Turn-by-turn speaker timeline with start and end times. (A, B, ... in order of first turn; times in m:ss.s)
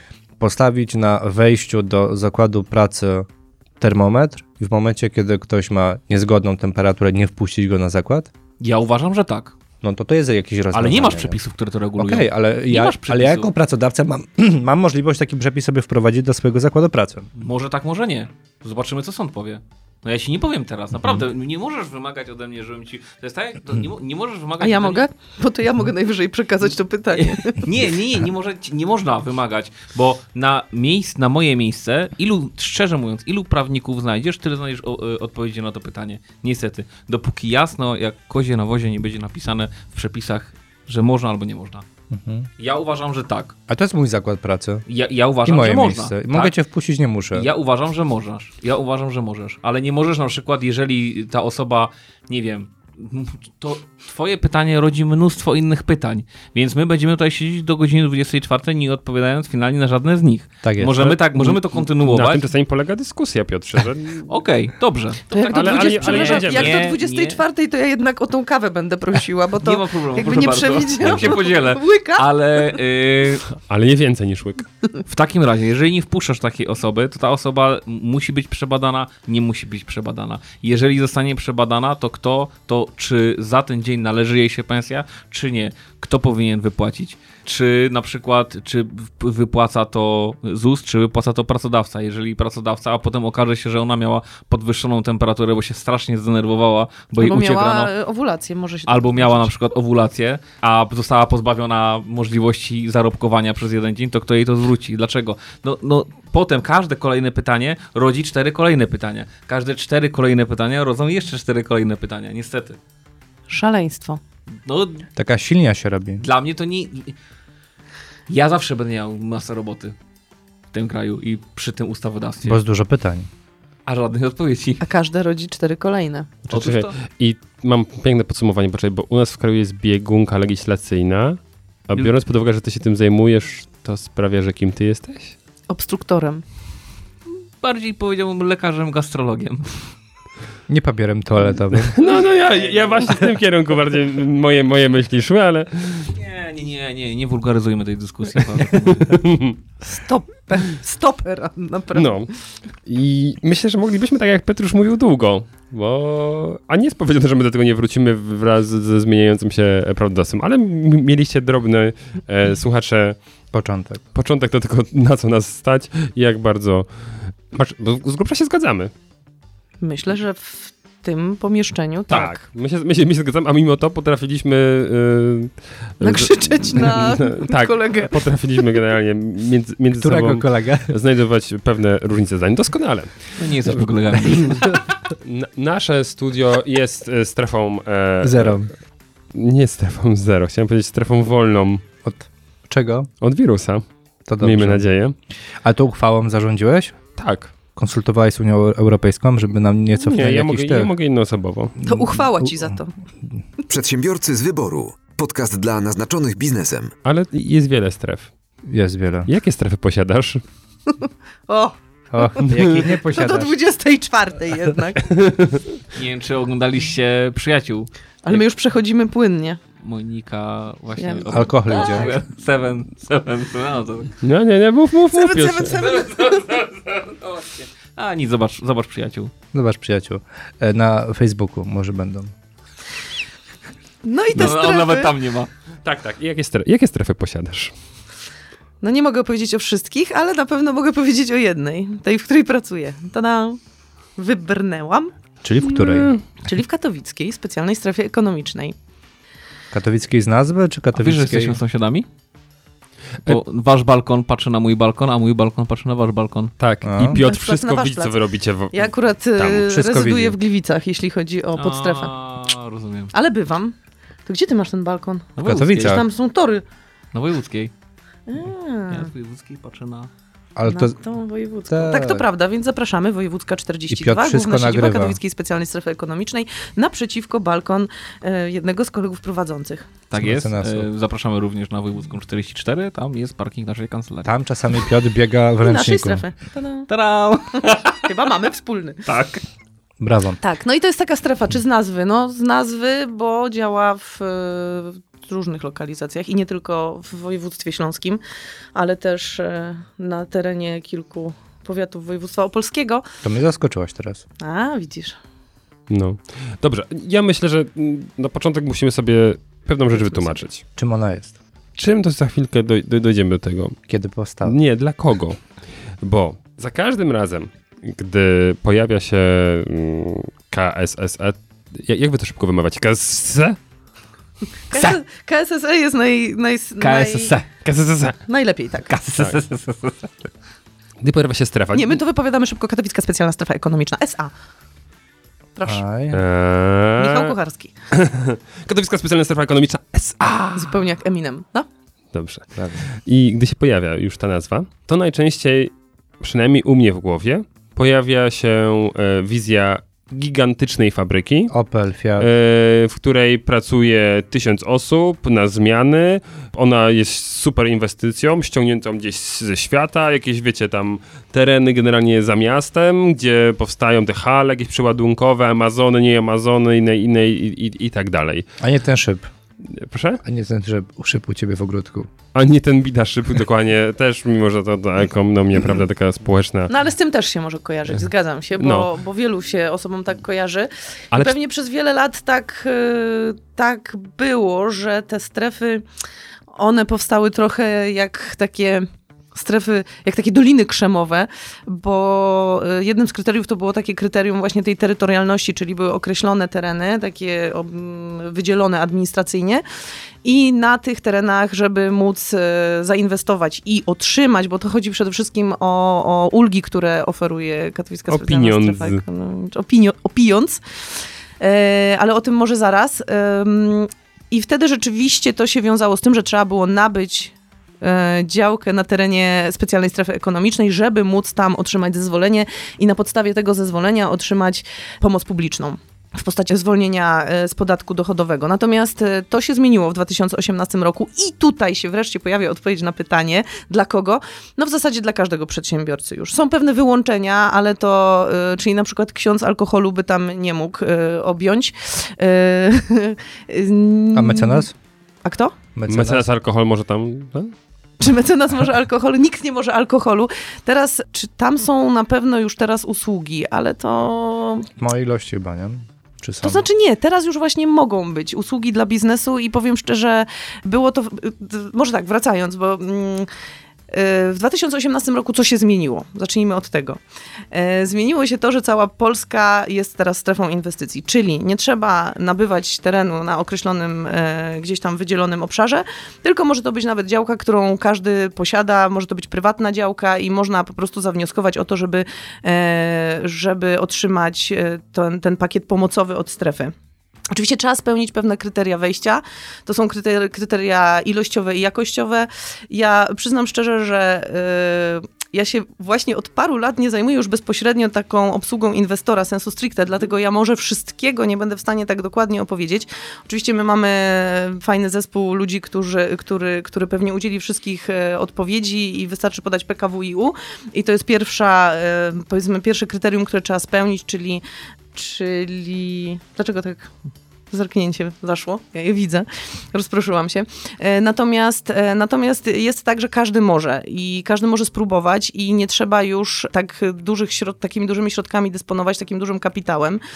0:00.4-0:03.3 A
0:03.8-0:08.3 A
0:08.6-0:09.6 B
0:09.8-0:11.4 A
0:10.7-0:13.5 B
0:12.0-0:17.3 A
0:17.4-0:25.1 B
0:24.6-0:27.6 C
0:27.1-0:41.8 B
0:42.1-0:42.5 A
0:42.6-0:43.5 B
0:43.7-0:44.8 A
0:44.9-0:46.5 B
0:45.4-0:47.5 A
0:47.3-1:02.4 B
1:00.6-1:01.3 A
1:02.0-1:04.3 D
1:04.3-1:07.4 B
1:05.3-1:12.6 C
1:05.5-1:06.8 D
1:09.6-1:13.5 B
1:11.0-1:11.3 D
1:13.6-1:14.6 D
1:15.1-1:37.9 B
1:37.2-1:39.5 C
1:38.8-1:52.8 B
1:53.5-1:54.2 C
1:54.5-1:55.1 B
1:55.2-1:56.2 A
1:56.2-1:57.2 B
1:58.3-1:59.9 B
2:00.7-2:02.6 B
2:02.4-2:03.3 A
2:03.8-2:04.8 B
2:04.8-2:06.3 C
2:06.5-2:15.3 D
2:06.5-2:06.9 B
2:15.7-2:16.4 C
2:17.6-2:19.8 B
2:20.7-2:21.9 A
2:21.9-2:26.1 D
2:22.0-2:23.2 B
2:26.1-2:29.1 B
2:28.7-2:29.6 D
2:29.8-2:32.2 C
2:31.9-2:32.3 D
2:32.8-2:43.2 D
2:43.5-2:44.0 A
2:44.1-2:46.9 D
2:47.5-2:48.9 D
2:49.8-2:52.4 C
2:52.1-3:08.6 D
2:56.0-2:58.2 C
2:59.9-3:00.9 A
3:03.4-3:04.7 B
3:08.2-3:08.7 A
3:09.3-3:11.8 D
3:12.0-3:13.1 A
3:13.2-3:13.8 D
3:14.3-3:14.8 A
3:14.4-3:15.1 D
3:15.6-3:17.0 A
3:17.2-3:17.5 D
3:17.8-3:20.9 A
3:20.0-3:21.8 D
3:21.8-3:22.8 A
3:21.8-3:22.9 C
3:23.7-3:26.9 E
3:27.0-3:28.3 D
3:28.7-3:29.3 A
3:29.3-3:30.4 D
3:30.9-3:35.0 C
3:32.1-3:33.5 A
3:35.0-3:35.6 D
3:35.9-3:38.4 B
3:38.2-3:39.6 C
3:39.8-3:44.1 B
3:41.0-3:42.1 C
3:41.3-3:42.1 A
3:44.2-3:46.1 D
3:45.1-3:46.4 C
3:46.1-3:49.3 B
3:49.5-3:52.3 A
3:54.0-3:55.1 C
3:54.3-3:55.5 B
3:55.8-3:57.7 D
3:58.8-4:03.6 C
4:04.2-4:05.1 C
4:05.4-4:06.1 A
4:05.6-4:06.2 D
4:06.4-4:08.7 C
4:09.7-4:11.6 A
4:10.9-4:12.1 B
4:13.2-4:16.5 B
4:16.6-4:19.6 D
4:16.8-4:17.2 A
4:17.1-4:18.2 C
4:18.7-4:22.1 C
4:19.6-4:20.4 A
4:21.5-4:23.1 B
4:23.1-4:23.7 C
4:24.2-4:26.6 C
4:25.4-4:26.0 B
4:25.4-4:26.0 A
4:27.1-4:27.7 B
4:28.3-4:29.1 C
4:28.9-4:30.1 B
4:30.6-4:31.0 A
4:30.6-4:39.9 C
4:31.7-4:32.3 A
4:33.9-4:35.2 A
4:40.1-4:44.3 B
4:40.2-4:40.9 A
4:44.2-4:46.3 A
4:45.6-4:46.9 C
4:46.9-4:48.1 B
4:48.0-4:49.0 C
4:49.0-4:49.4 B
4:50.0-4:50.4 A
4:50.4-4:58.2 C
4:58.7-5:03.0 C
5:03.2-5:04.2 A
5:04.4-5:05.2 C
5:05.9-5:10.6 D
5:10.0-5:10.4 C
5:10.7-5:11.4 A
5:11.8-5:13.8 D
5:13.9-5:14.6 A
5:14.4-5:15.4 D
5:16.0-5:23.6 D
5:24.7-5:27.3 C
5:24.7-5:25.0 B
5:26.8-5:27.5 B
5:27.6-5:28.2 D
5:28.3-5:28.9 C
5:28.9-5:30.1 B
5:31.0-5:32.0 D
5:31.7-5:34.3 C
5:35.6-5:35.8 C
5:35.6-5:36.2 A
5:36.1-5:37.4 D
5:37.0-5:37.7 C
5:37.9-5:40.8 D
5:40.6-5:41.7 C
5:42.1-5:51.5 D
5:51.5-5:52.3 A
5:52.2-6:08.4 D
6:08.6-6:09.3 A
6:09.7-6:10.2 D
6:10.2-6:12.1 A
6:12.3-6:16.7 D
6:16.7-6:25.8 C
6:18.6-6:18.9 D
6:26.6-6:39.6 C
6:40.2-6:50.6 C
6:48.1-6:49.0 D
6:51.4-7:24.7 C
7:24.1-7:24.7 A
7:25.2-7:25.6 C
7:25.8-7:26.2 A
7:25.9-7:27.5 D
7:28.0-7:34.7 C
7:34.8-7:36.6 A
7:36.4-7:43.3 C
7:43.9-7:47.0 C
7:47.5-8:06.7 C
8:07.3-8:34.4 C
8:34.9-8:36.9 C
8:37.5-8:50.0 C